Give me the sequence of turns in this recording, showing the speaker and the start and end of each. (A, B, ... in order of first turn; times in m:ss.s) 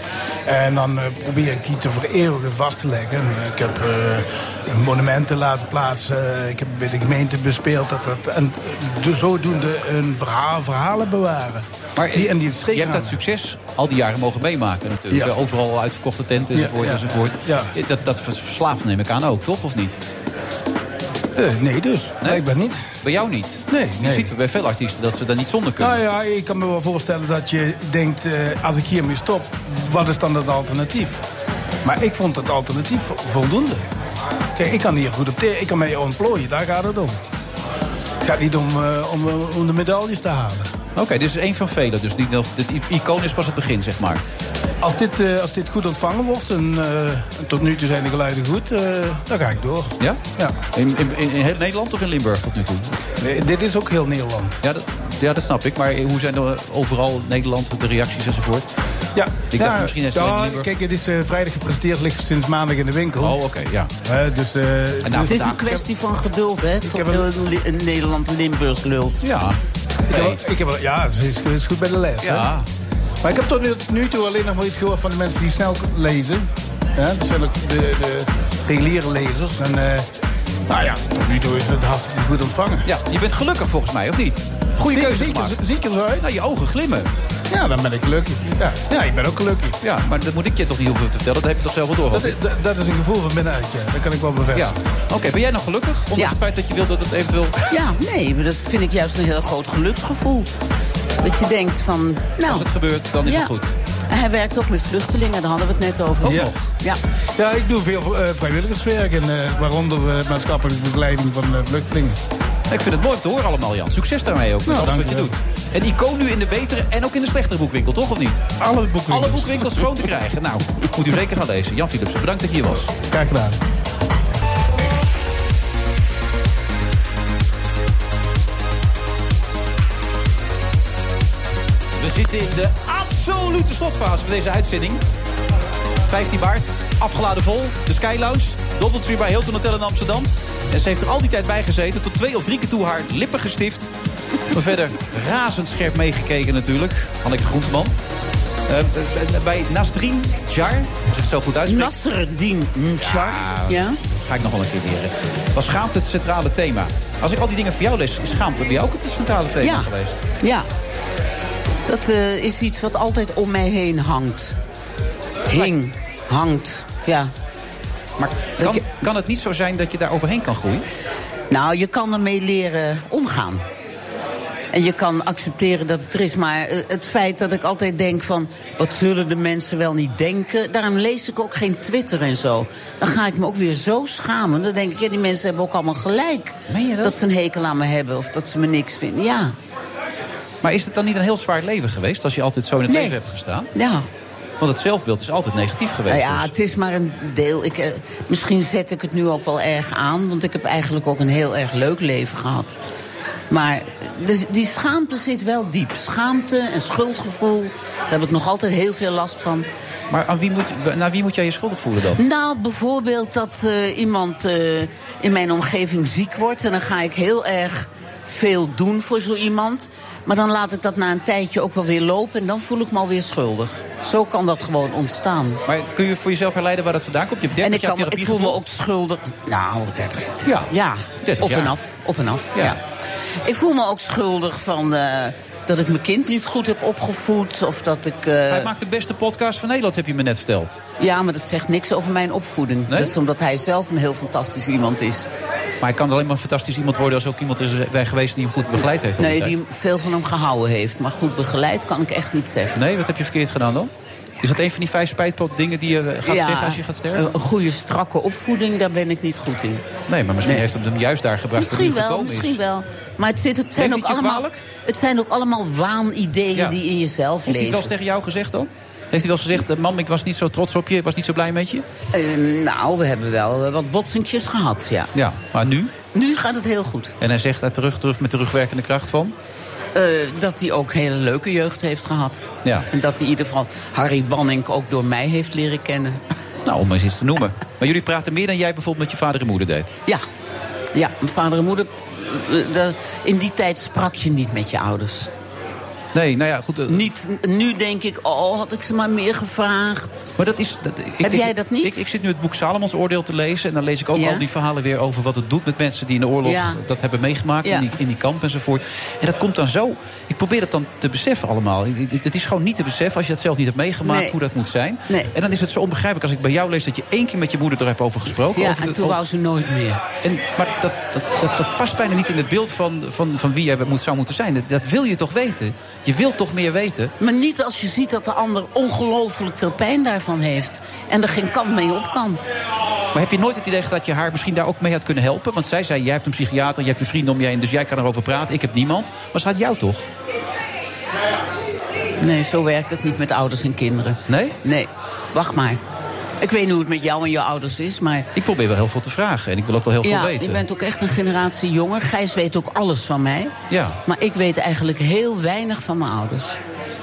0:00.4-0:13.2 A
0:12.0-0:20.0 B
0:16.5-0:17.7 A
0:21.4-0:22.8 A
0:23.0-0:26.0 B
0:23.7-0:24.3 A
0:25.8-0:31.2 A
0:31.8-0:33.8 A
0:34.6-0:37.2 A
0:38.2-0:40.7 A
0:40.9-0:44.2 B
0:44.8-0:50.5 A
0:50.0-0:53.0 B
0:53.2-0:54.6 A
0:54.6-0:58.6 B
0:59.1-1:03.4 A
0:59.5-1:00.7 B
1:03.2-1:03.9 B
1:04.0-1:05.8 A
1:05.0-1:05.6 B
1:05.2-1:09.2 C
1:06.8-1:07.2 A
1:09.2-1:10.4 B
1:10.1-1:12.5 A
1:12.2-1:12.7 B
1:13.2-1:20.0 A
1:20.7-1:22.8 A
1:22.8-1:25.6 B
1:24.9-1:26.2 A
1:26.2-1:27.1 B
1:27.5-1:29.8 A
1:29.8-1:32.4 B
1:32.1-1:34.8 A
1:34.5-1:37.6 B
1:37.7-1:40.5 C
1:41.2-1:42.7 C
1:42.4-1:43.7 B
1:43.2-1:43.5 C
1:44.1-1:47.0 C
1:46.2-1:46.6 B
1:47.4-1:52.2 A
1:52.7-1:58.6 B
1:54.6-1:55.3 A
1:58.6-1:59.6 A
1:59.1-2:02.9 B
2:03.1-2:03.6 A
2:12.0-2:15.0 B
2:16.0-2:23.9 B
2:24.5-2:27.9 B
2:28.7-2:31.9 B
2:31.7-2:34.0 C
2:33.0-2:40.2 B
2:39.6-2:39.9 C
2:40.4-2:40.7 C
2:41.9-2:44.6 C
2:45.5-2:47.3 C
2:48.2-2:50.8 B
2:48.6-2:48.8 C
2:51.5-2:53.6 C
2:54.7-3:09.5 C
3:06.7-3:07.2 B
3:10.6-3:13.7 B
3:12.9-3:13.2 C
3:13.7-3:14.1 C
3:14.6-3:16.5 B
3:16.1-3:22.8 C
3:23.5-3:29.7 C
3:30.1-3:32.2 B
3:32.2-3:45.6 C
3:45.6-3:48.6 B
3:47.5-3:52.8 C
3:50.4-3:51.7 B
3:53.4-3:58.7 C
3:58.5-4:00.8 B
4:01.0-4:05.3 C
4:05.8-4:09.5 B
4:09.2-4:12.8 C
4:12.7-4:13.9 B
4:14.4-4:17.3 B
4:16.2-4:19.8 C
4:20.1-4:22.6 B
4:21.6-4:27.9 C
4:23.8-4:24.6 B
4:27.4-4:31.8 B
4:32.1-4:35.1 C
4:35.1-4:35.9 B
4:36.1-4:37.1 C
4:37.2-4:39.3 B
4:39.9-4:46.2 C
4:46.6-4:49.9 B
4:50.9-4:55.3 C
4:56.1-4:57.1 B
4:56.9-5:00.3 C
5:00.4-5:19.2 B
5:01.2-5:02.1 C
5:04.1-5:04.4 C
5:06.4-5:06.8 C
5:07.6-5:08.0 C
5:14.0-5:14.3 C
5:18.5-5:20.0 C
5:20.2-5:27.1 B
5:27.2-5:32.4 C
5:33.1-5:40.0 B
5:42.2-5:45.8 C
5:44.3-5:44.6 B
5:46.4-5:48.3 C
5:48.3-5:50.6 B
5:50.0-5:53.5 C
5:53.7-5:54.0 B
5:54.0-5:56.6 C